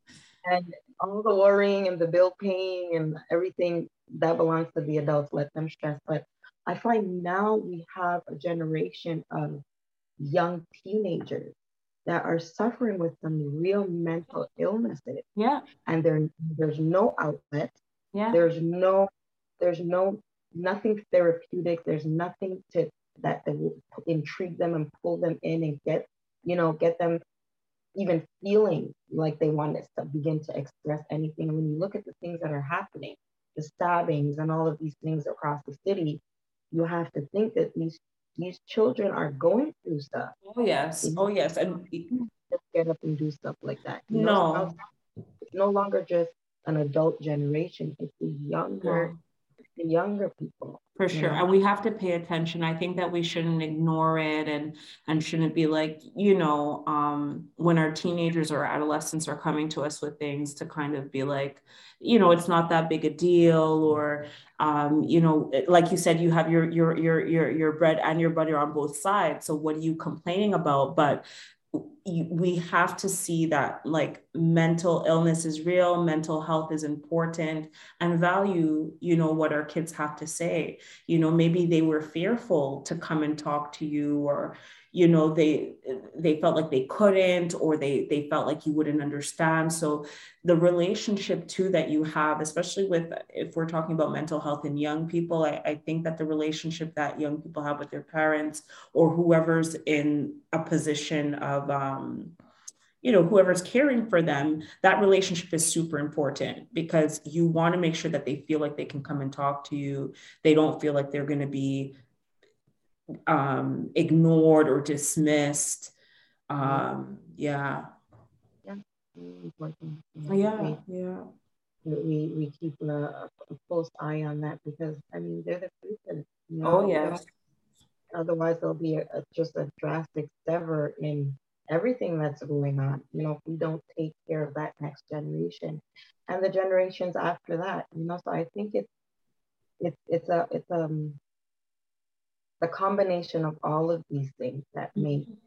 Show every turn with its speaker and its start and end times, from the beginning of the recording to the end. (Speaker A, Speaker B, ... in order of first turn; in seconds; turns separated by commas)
Speaker A: 0.4-9.6, Speaker A: 10.2-11.5, Speaker A: 12.1-15.2, Speaker B: 15.4-15.6, Speaker A: 15.9-17.8, Speaker B: 18.1-18.4, Speaker A: 18.3-19.1, Speaker A: 19.6-27.2, Speaker A: 28.0-36.2, Speaker A: 36.7-40.3, Speaker B: 40.5-42.1, Speaker A: 42.1-44.8, Speaker B: 44.1-44.8, Speaker A: 45.5-49.1, Speaker B: 48.8-49.2, Speaker A: 49.8-51.4, Speaker B: 51.0-102.4, Speaker B: 103.0-112.0, Speaker B: 113.3-116.0, Speaker B: 116.5-117.9, Speaker A: 116.6-116.9, Speaker A: 118.6-120.8, Speaker B: 120.3-121.3, Speaker A: 121.8-127.2, Speaker B: 126.6-127.2, Speaker A: 128.1-138.9, Speaker A: 139.8-141.2, Speaker A: 142.6-145.3, Speaker B: 144.9-145.3